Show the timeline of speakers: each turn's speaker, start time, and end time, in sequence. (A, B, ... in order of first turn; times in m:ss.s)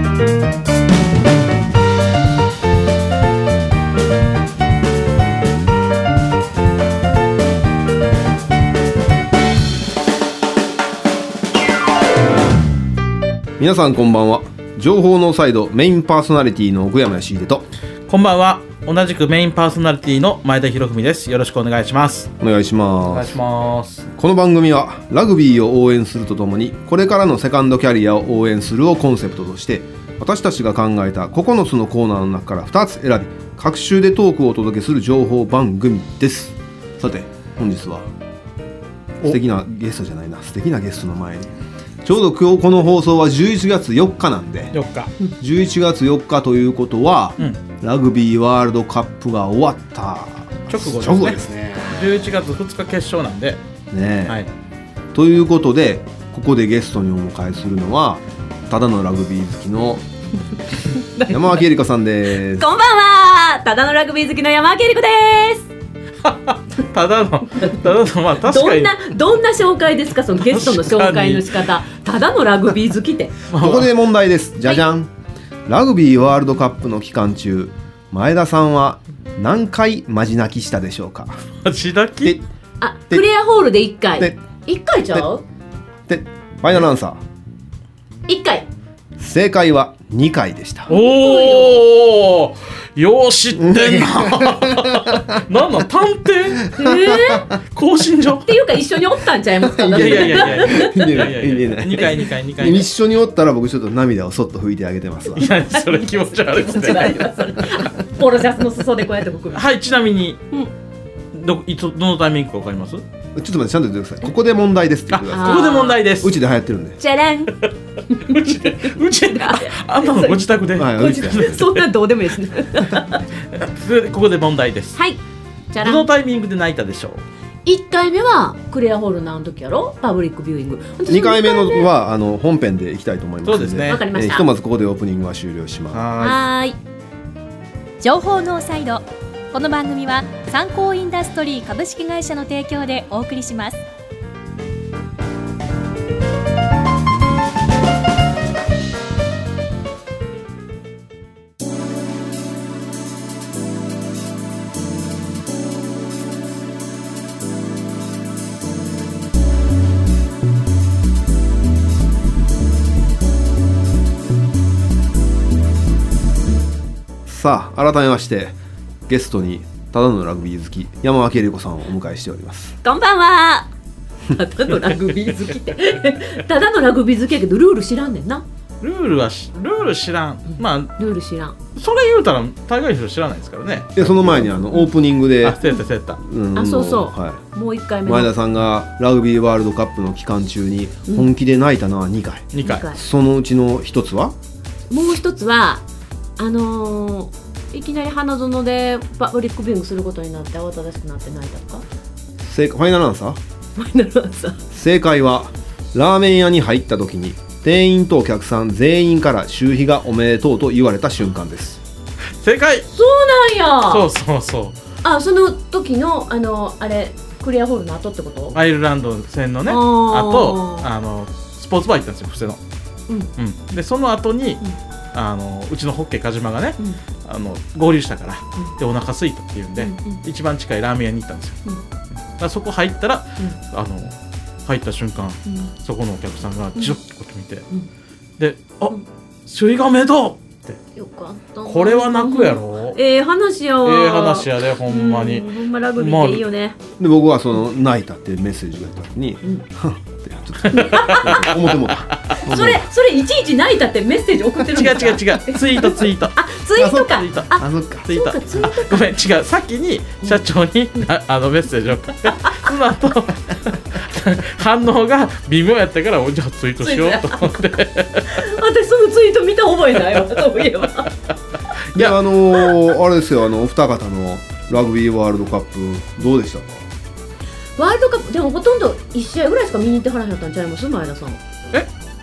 0:13.6-0:17.7 A
0:18.1-0:22.3 B
0:22.4-0:23.4 A
0:23.0-0:24.1 B
0:24.2-0:38.1 A
0:39.2-0:41.5 A
0:42.0-0:44.7 A
0:44.7-0:45.1 B
0:45.4-0:52.2 A
0:50.7-0:53.6 B
0:53.9-0:54.4 A
0:55.1-1:00.0 A
1:01.0-1:01.3 C
1:01.3-1:02.7 A
1:02.5-1:05.7 C
1:06.2-1:08.9 B
1:07.6-1:07.8 C
1:08.4-1:13.3 C
1:10.4-1:11.6 B
1:13.5-1:13.9 B
1:13.6-1:15.1 A
1:15.6-1:21.4 A
1:21.6-1:22.4 B
1:22.8-1:25.4 C
1:26.1-1:27.2 A
1:28.3-1:28.7 C
1:29.2-1:30.9 A
1:30.9-1:31.8 C
1:30.9-1:36.7 B
1:33.6-1:35.4 A
1:36.6-1:37.6 A
1:36.7-1:37.5 C
1:37.7-1:38.6 B
1:38.4-1:41.0 C
1:39.6-1:45.5 A
1:39.9-1:42.9 B
1:45.3-1:47.4 B
1:45.7-1:49.6 C
1:49.5-1:50.4 B
1:51.3-1:53.0 B
1:53.3-1:57.0 A
1:55.1-1:56.4 B
1:55.3-1:56.0 C
1:57.0-1:57.5 C
1:58.1-2:03.2 C
1:58.2-2:01.8 B
2:00.7-2:01.6 A
2:03.5-2:05.0 B
2:04.9-2:05.2 C
2:05.7-2:06.1 C
2:05.8-2:07.2 B
2:07.6-2:11.9 C
2:11.1-2:16.1 A
2:13.4-2:14.0 B
2:13.9-2:14.5 C
2:15.9-2:16.4 B
2:16.2-2:16.8 C
2:18.0-2:23.8 D
2:47.2-2:48.6 A
2:49.1-2:52.8 A
2:52.8-2:53.7 C
2:54.3-2:58.4 C
2:58.8-3:00.9 B
3:01.0-3:01.6 C
3:01.7-3:04.5 B
3:04.0-3:05.6 A
3:05.4-3:06.2 B
3:06.2-3:07.4 A
3:06.5-3:08.3 C
3:08.0-3:14.3 A
3:12.5-3:12.9 B
3:12.6-3:13.0 C
3:14.9-3:15.8 C
3:16.4-3:21.8 C
3:22.4-3:23.4 A
3:23.8-3:24.6 C
3:24.7-3:31.8 A
3:32.4-3:32.9 B
3:32.9-3:34.0 C
3:33.9-3:34.8 B
3:35.0-3:38.6 C
3:38.5-3:42.6 B
3:39.7-3:40.9 C
3:43.4-3:44.6 B
3:45.1-3:51.6 B
3:49.8-3:50.2 C
3:52.4-3:54.1 B
3:54.6-3:57.6 B
3:58.4-3:59.0 B
3:59.5-4:00.8 B
4:01.0-4:06.8 C
4:01.6-4:03.0 B
4:03.8-4:06.4 B
4:07.0-4:12.8 A
4:10.6-4:12.4 B
4:10.7-4:11.5 C
4:12.4-4:19.1 C
4:14.7-4:16.4 B
4:16.8-4:18.1 A
4:17.0-4:17.5 B
4:18.0-4:28.4 B
4:26.8-4:27.6 C
4:28.3-4:31.1 C
4:31.9-4:36.8 A
4:37.8-4:41.4 C